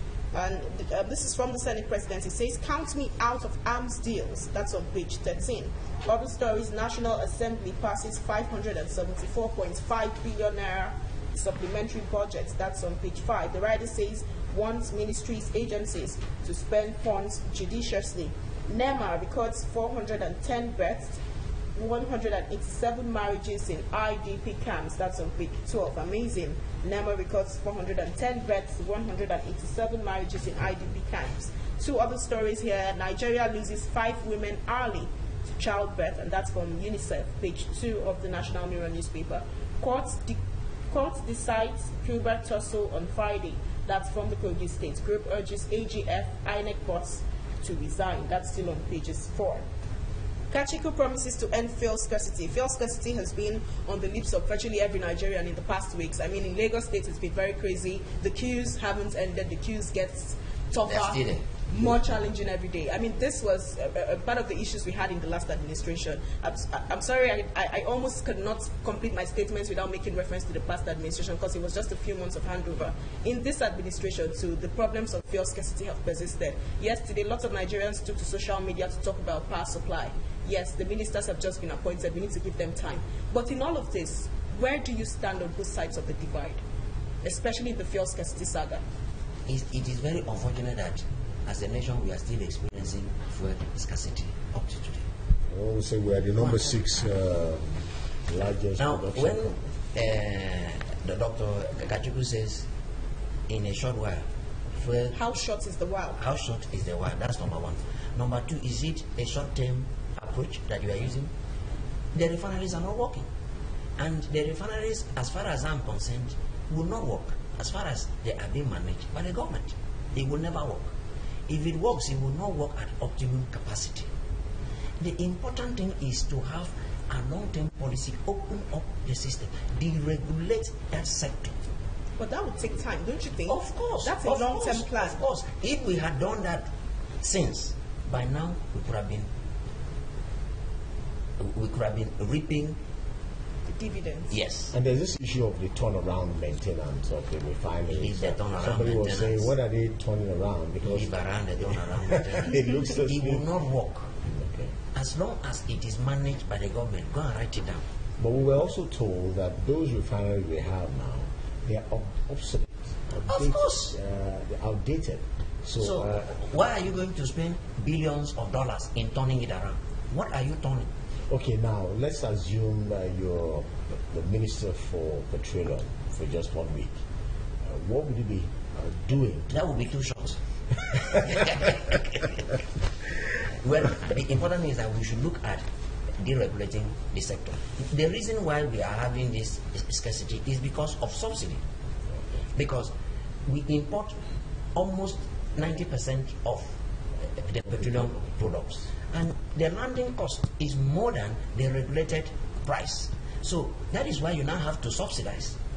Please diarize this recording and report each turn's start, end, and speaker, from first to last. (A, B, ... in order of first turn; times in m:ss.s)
0:00.3-0:21.2 A
0:21.7-0:49.6 A
0:50.5-1:26.6 A
1:00.9-1:01.4 B
1:27.2-1:28.8 A
1:29.5-1:35.0 B
1:35.5-1:39.6 C
1:36.4-1:36.8 B
1:38.8-1:42.7 B
1:43.5-1:45.2 B
1:45.1-1:46.2 A
1:46.2-1:51.3 B
1:52.1-1:53.3 B
1:54.0-2:00.9 B
2:01.5-2:04.1 B
2:05.0-2:11.6 B
2:12.2-2:15.2 A
2:13.5-2:16.7 B
2:17.2-2:19.3 B
2:21.4-2:22.8 B
2:23.7-2:24.3 A
2:24.3-2:24.7 B
2:24.7-2:33.4 C
2:27.9-2:29.5 B
2:30.8-2:34.1 B
2:34.2-2:34.7 C
2:34.9-2:37.9 B
2:38.2-2:46.3 C
2:43.3-2:44.0 B
2:45.8-2:50.9 B
2:51.3-2:57.0 C
2:57.6-2:59.5 C
2:59.5-3:02.6 B
3:03.3-3:05.6 B
3:06.2-3:11.6 B
3:12.5-3:12.9 B
3:13.4-3:14.2 B
3:14.7-3:25.6 B